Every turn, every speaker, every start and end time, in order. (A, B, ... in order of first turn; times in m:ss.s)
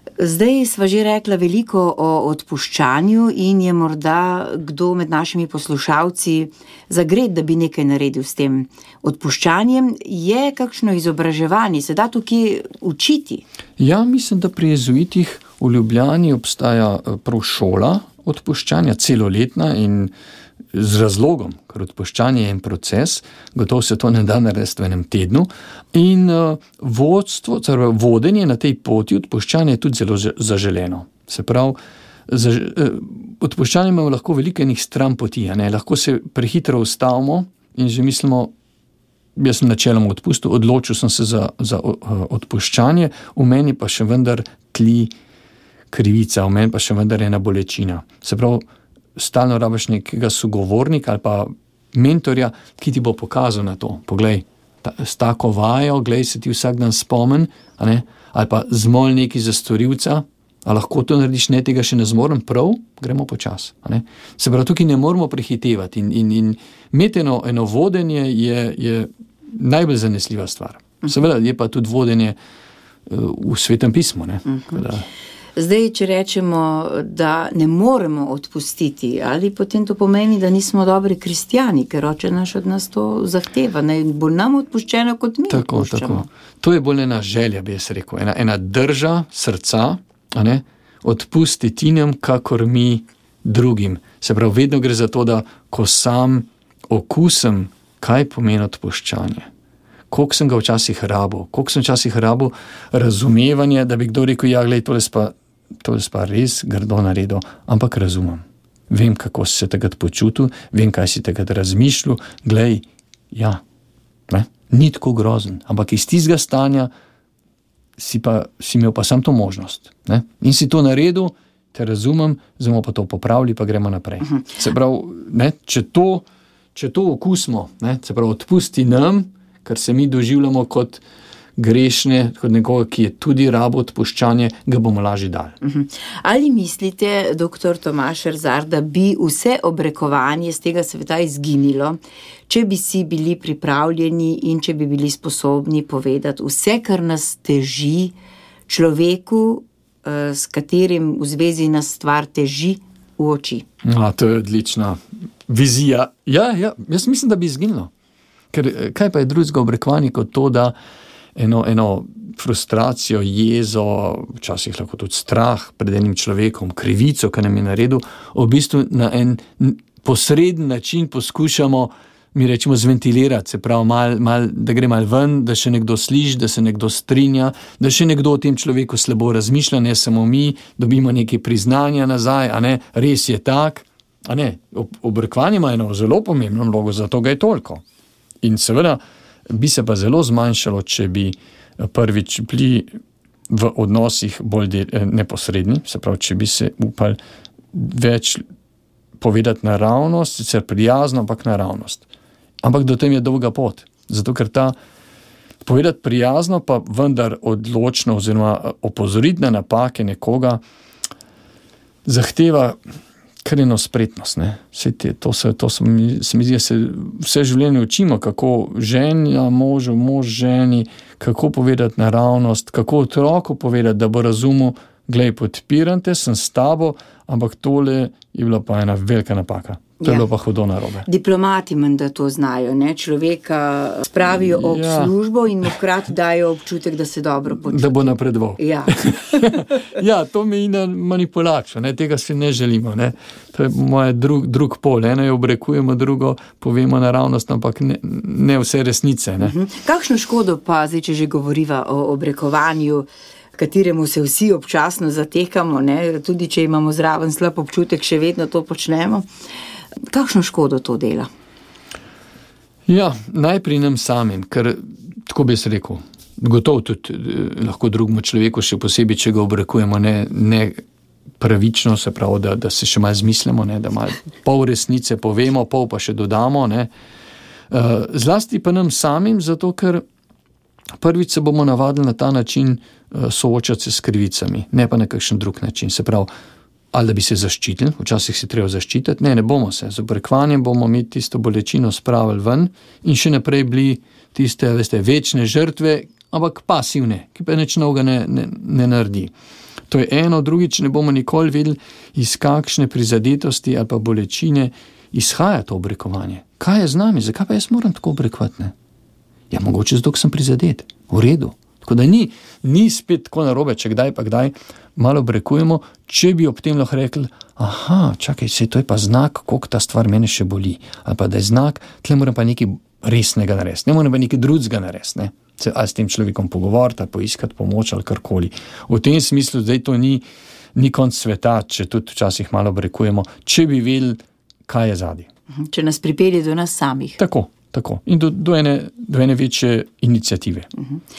0:00.2-0:13.4 A
0:13.8-0:20.1 B
0:20.7-0:31.8 B
0:32.3-0:38.5 B
0:39.4-0:45.1 B
0:45.9-0:48.6 B
0:49.2-1:12.4 B
1:13.1-1:15.1 B
1:14.5-1:14.8 A
1:15.6-1:26.3 A
1:25.5-1:39.5 B
1:40.1-1:53.6 B
1:54.3-1:56.9 B
1:58.0-2:06.2 B
2:06.8-2:11.0 B
2:11.6-2:15.6 B
2:15.6-2:28.1 A
2:28.7-2:33.6 A
2:33.8-2:37.9 B
2:38.5-2:40.8 B
2:41.4-3:07.8 B
3:08.4-3:12.9 B
3:13.5-3:17.2 B
3:17.7-3:18.4 B
3:19.2-3:22.1 B
3:22.6-3:24.7 B
3:25.6-3:30.6 B
3:32.1-3:32.8 B
3:33.4-3:51.1 B
3:50.0-3:50.2 A
3:51.1-3:59.6 A
3:54.3-3:55.1 B
3:57.6-4:09.5 B
4:09.4-4:19.2 A
4:20.1-4:21.3 A
4:22.9-4:30.8 B
4:31.4-4:36.9 B
4:37.7-4:40.0 B
4:41.0-4:46.3 B
4:46.9-4:59.3 B
4:59.9-5:08.7 B
5:09.5-5:30.2 B
5:30.8-5:35.3 B
5:35.5-5:37.2 A
5:37.2-5:40.7 B
5:40.8-5:41.0 A